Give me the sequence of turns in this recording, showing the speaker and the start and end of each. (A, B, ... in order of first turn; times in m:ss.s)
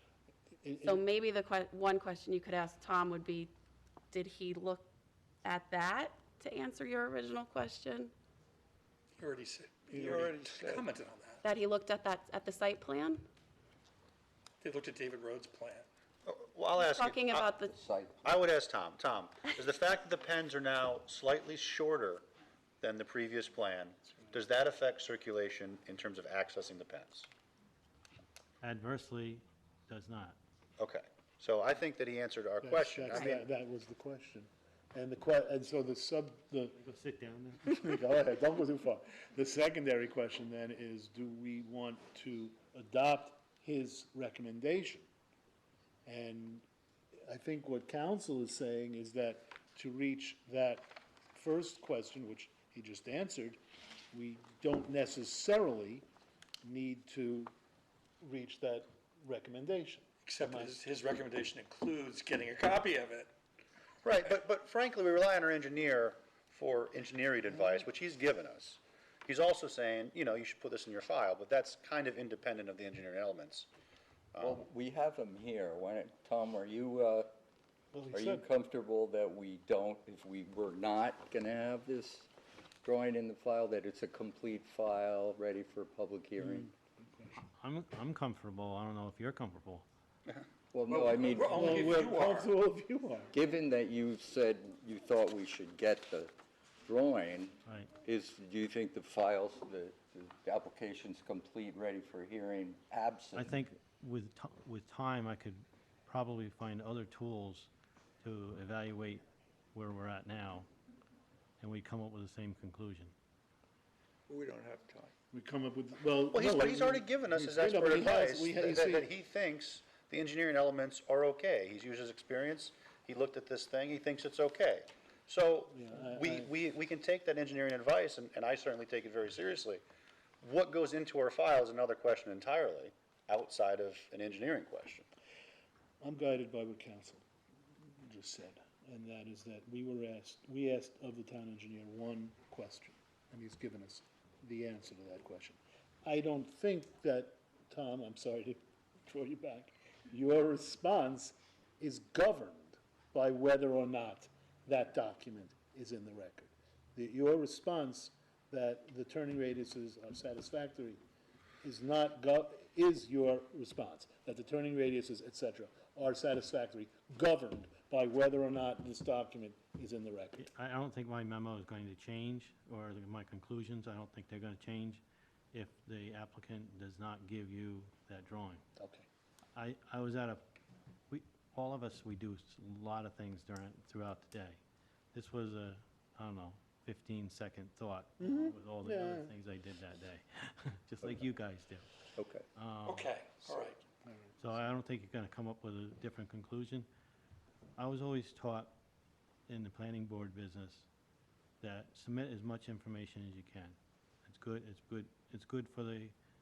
0:00.6-0:01.0 A
0:00.8-0:03.5 B
0:04.1-0:04.8 B
0:05.4-0:08.1 B
0:09.2-0:11.4 C
0:09.9-0:10.3 A
0:11.4-0:13.2 B
0:14.6-0:15.9 C
0:16.2-0:17.5 D
0:16.8-0:17.7 B
0:17.7-0:18.2 E
0:18.2-0:22.2 D
0:22.8-0:27.3 D
0:28.6-0:30.4 F
0:30.8-0:33.4 D
0:32.6-0:36.8 A
0:36.8-0:37.8 F
0:37.7-0:45.1 A
0:46.0-0:46.6 A
0:47.2-0:53.6 A
0:54.1-0:56.0 A
0:56.6-0:57.5 A
0:58.2-1:00.8 A
1:00.2-1:03.3 C
1:04.0-1:13.7 D
1:14.3-1:14.6 D
1:14.4-1:17.3 E
1:17.9-1:18.4 A
1:18.1-1:22.3 E
1:22.8-1:26.7 E
1:26.4-1:27.4 A
1:27.6-1:29.8 F
1:30.7-1:32.1 E
1:30.9-1:32.5 C
1:31.5-1:33.3 A
1:33.3-1:36.3 E
1:36.8-1:43.6 E
1:37.6-1:37.9 F
1:43.3-1:47.7 F
1:48.2-1:49.2 F
1:49.7-1:50.7 F
1:51.6-1:53.1 F
1:55.3-1:59.1 A
1:56.3-2:09.8 D
2:05.7-2:06.5 A
2:10.4-2:15.0 D
2:16.0-2:17.2 A
2:18.0-2:41.0 A
2:41.6-2:50.5 A
2:50.4-2:58.6 F
2:58.8-2:59.1 A
2:59.5-3:00.4 F
3:01.1-3:04.6 F
3:05.1-3:11.9 F
3:08.2-3:09.3 A
3:12.2-3:12.4 E
3:12.6-3:13.1 F
3:12.8-3:13.8 C
3:13.4-3:14.6 A
3:14.4-3:16.9 F
3:17.8-3:18.7 F
3:19.5-3:20.9 F
3:21.6-3:26.1 F